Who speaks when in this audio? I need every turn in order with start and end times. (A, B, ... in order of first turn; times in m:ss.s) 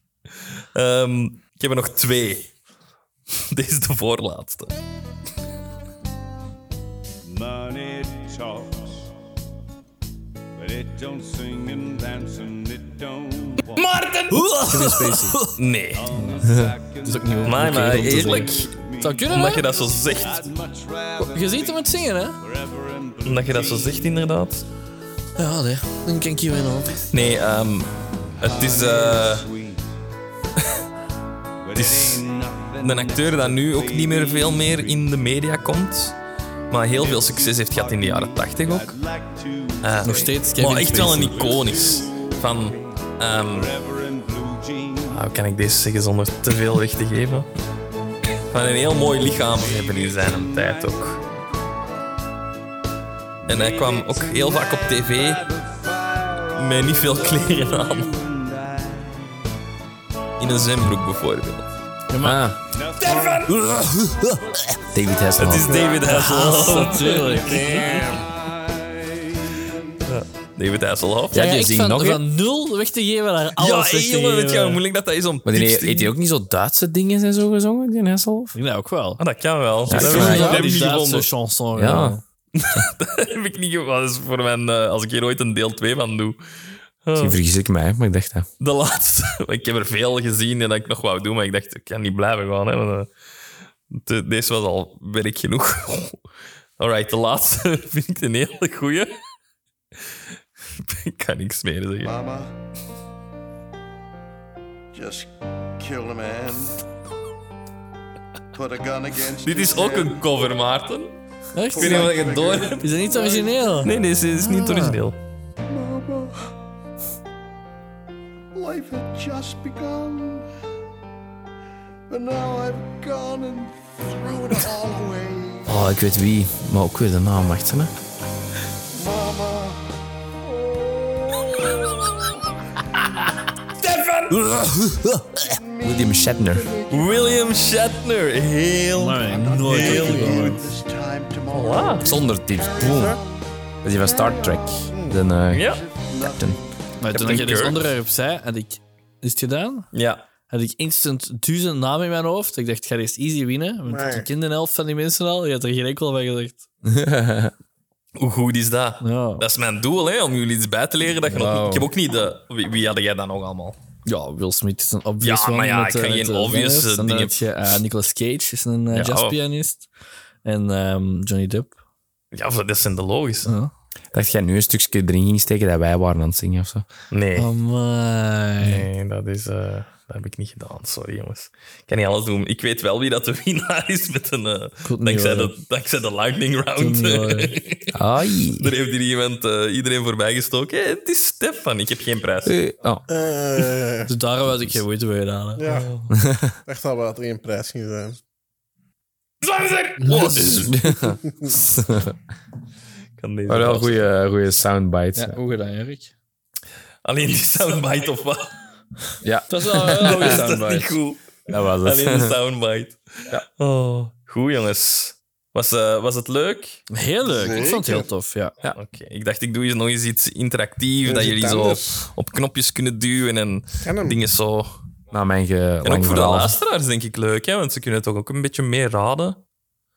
0:00.7-0:02.5 A
0:03.4-0:04.7 A
0:07.2-0:09.0 B
0:10.6-0:14.0 B
0:13.9-0:14.3 A
0:14.3-0:15.6 C
0:14.6-0:15.4 D
0:15.5-0:16.1 A
0:15.9-0:24.1 B
0:16.1-0:16.5 C
0:17.0-0:19.6 C
0:17.4-0:18.7 A
0:19.3-0:20.4 A
0:21.2-0:22.4 C
0:23.2-0:24.6 A
0:25.4-0:27.1 C
0:27.1-0:29.5 A
0:28.4-0:29.8 B
0:31.6-0:35.0 B
0:31.7-0:32.2 A
0:32.8-0:36.2 A
0:36.7-0:39.0 A
0:36.9-0:42.9 B
0:39.8-0:43.7 A
0:40.0-0:41.5 C
0:43.4-0:45.3 B
0:45.1-0:47.5 A
0:48.5-0:51.2 A
0:49.4-0:51.2 B
0:53.5-0:55.4 A
0:53.5-0:53.9 B
0:53.9-0:54.9 E
0:55.0-0:55.6 B
0:55.5-0:58.0 E
0:56.5-0:58.1 A
0:57.1-0:59.0 B
1:00.4-1:01.7 A
1:02.1-1:02.5 C
1:02.2-1:02.6 D
1:02.7-1:04.7 B
1:03.0-1:04.5 C
1:03.1-1:03.4 E
1:04.9-1:05.9 D
1:05.4-1:07.5 A
1:05.8-1:09.6 B
1:05.9-1:08.0 C
1:07.4-1:08.3 F
1:10.0-1:11.4 A
1:11.3-1:12.2 D
1:11.3-1:14.8 C
1:13.6-1:16.1 A
1:15.4-1:18.5 D
1:18.5-1:19.2 C
1:19.2-1:21.3 A
1:19.9-1:20.7 D
1:19.9-1:22.2 C
1:21.8-1:22.2 D
1:22.5-1:26.4 A
1:27.0-1:27.4 A
1:27.2-1:28.5 D
1:28.6-1:33.1 A
1:33.9-1:36.2 A
1:36.8-1:39.1 A
1:40.8-1:42.1 A
1:42.0-1:42.5 E
1:44.9-1:46.8 E
1:48.5-1:50.3 E
1:49.4-1:51.1 A
1:51.5-1:55.0 C
1:51.7-1:53.9 E
1:51.7-1:52.8 A
1:53.8-1:55.2 A
1:55.7-1:56.5 E
1:58.5-2:00.5 E
2:02.1-2:05.7 E
2:05.7-2:07.9 D
2:08.9-2:09.9 E
2:10.4-2:12.4 E
2:13.8-2:14.3 A
2:14.3-2:15.5 C
2:15.4-2:17.5 E
2:15.8-2:16.7 D
2:16.9-2:20.5 A
2:19.0-2:20.6 C
2:19.2-2:26.6 E
2:21.5-2:22.2 A
2:22.0-2:23.2 D
2:23.8-2:25.7 D
2:25.5-2:25.8 A
2:26.2-2:26.6 D
2:27.0-2:29.9 C
2:27.1-2:27.8 A
2:29.9-2:30.2 A
2:30.5-2:36.6 C
2:33.8-2:34.3 F
2:36.8-2:37.5 D
2:38.2-2:43.8 A
2:39.0-2:39.4 C
2:41.2-2:41.9 C
2:44.0-2:49.9 C
2:45.2-2:47.4 A
2:48.9-2:49.4 A
2:50.4-2:51.7 C
2:52.3-2:53.5 A
2:53.4-2:53.7 C
2:54.1-2:56.8 D
2:57.1-2:57.5 A
2:57.4-2:58.8 C
2:58.6-3:07.9 A
3:04.8-3:05.5 C
3:06.8-3:07.5 C
3:07.9-3:08.7 D
3:08.6-3:12.5 A
3:12.4-3:13.0 D
3:13.1-3:14.1 F
3:14.1-3:15.6 C
3:15.6-3:15.9 F
3:15.6-3:16.1 A
3:16.2-3:16.6 D
3:16.6-3:18.2 F
3:19.4-3:20.7 A
3:20.3-3:22.1 D
3:23.2-3:24.1 A
3:23.5-3:25.4 D
3:25.2-3:26.1 C
3:27.0-3:28.5 A
3:29.2-3:30.6 D
3:29.5-3:30.9 C
3:29.8-3:36.8 A
3:31.5-3:32.3 D
3:36.9-3:38.5 C
3:37.2-3:38.1 F
3:38.7-3:44.7 A
3:41.0-3:42.1 F
3:43.8-3:44.2 F
3:45.1-3:46.6 D
3:45.8-3:49.4 A